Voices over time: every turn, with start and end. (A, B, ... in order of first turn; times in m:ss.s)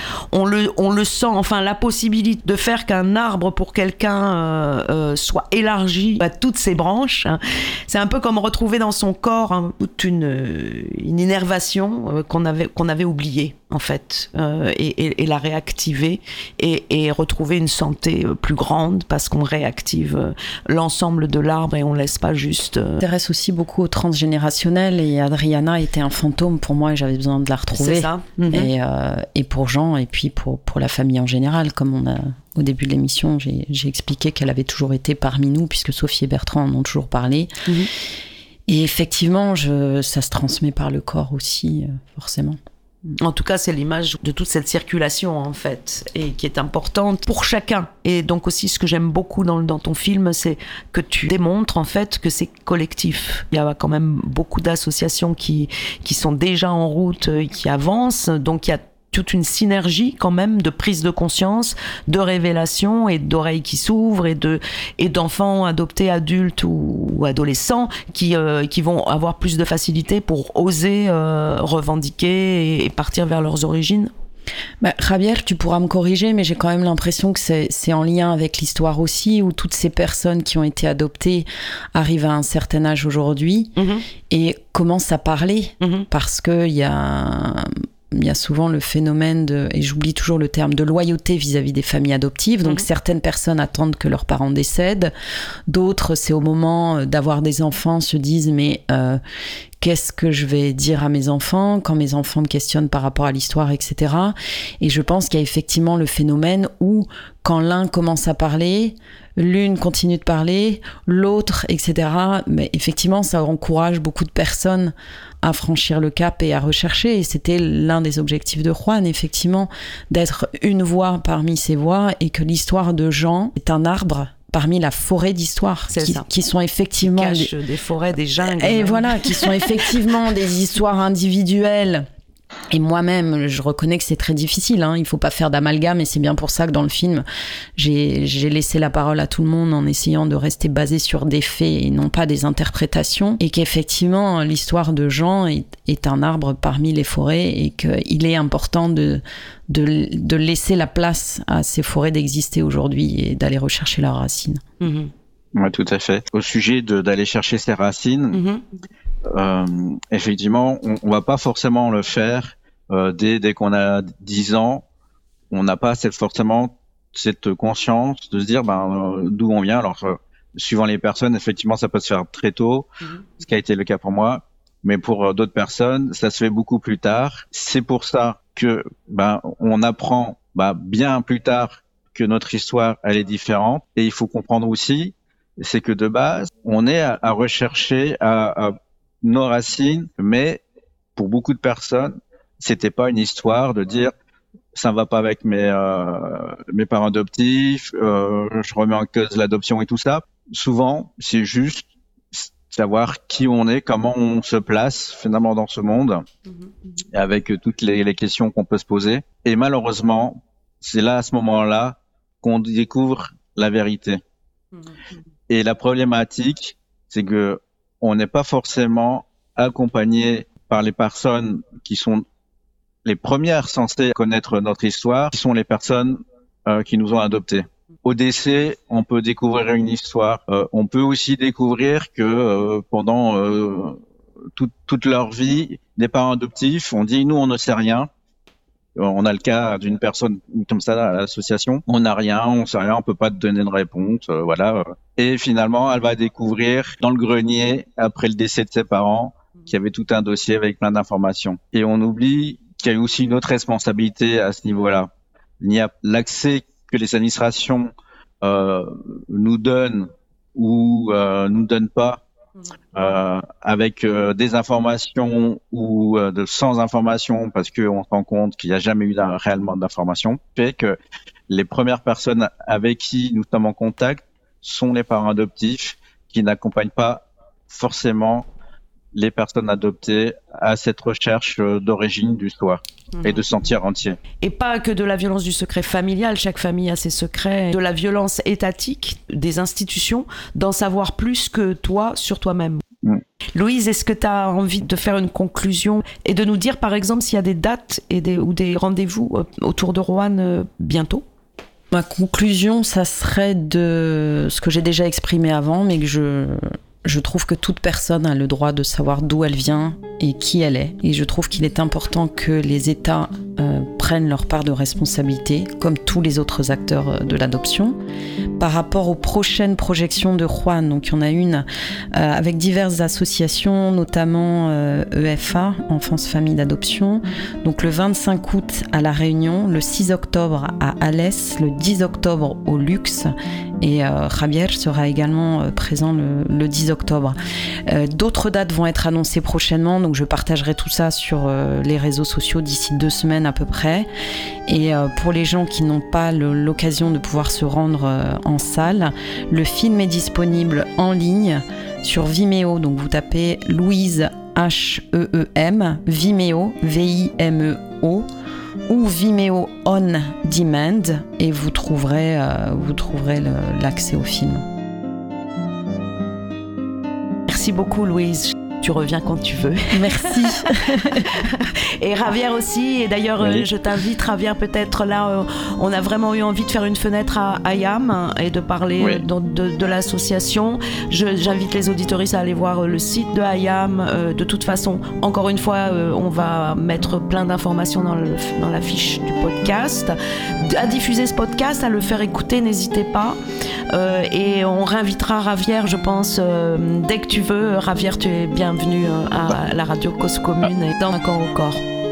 0:00.3-0:23.0 A
0:23.0-0:37.5 B
0:27.7-0:28.7 A
0:38.7-0:42.6 B
0:43.2-1:14.1 A
1:14.8-1:23.8 B
1:23.8-1:24.0 A
1:24.3-1:35.1 B
1:25.8-1:26.1 A
1:35.7-1:39.2 B
1:39.8-2:07.5 B
2:05.9-2:06.3 A
2:07.0-2:09.5 A
2:08.4-2:12.1 B
2:12.7-2:17.2 B
2:17.8-2:34.6 B
2:34.8-2:35.1 A
2:35.5-2:38.4 C
2:38.3-2:38.6 A
2:39.3-2:44.8 C
2:45.5-3:10.6 C
3:11.2-3:14.1 C
3:14.7-3:26.2 C
3:27.1-3:34.2 C
3:35.5-3:42.2 C
3:43.0-3:54.0 C
3:54.5-3:58.1 C
3:59.0-4:22.2 C
4:22.9-4:31.0 C
4:31.5-4:38.5 C
4:39.1-4:44.2 C
4:44.4-4:52.8 A
4:53.5-5:01.2 A
5:01.9-5:18.0 B
5:18.6-5:44.1 B
5:44.7-5:58.3 B
5:58.9-6:04.6 B
6:07.5-6:33.4 A
6:09.9-6:11.4 B
6:13.4-6:13.6 C
6:19.0-6:19.2 C
6:33.9-6:41.8 A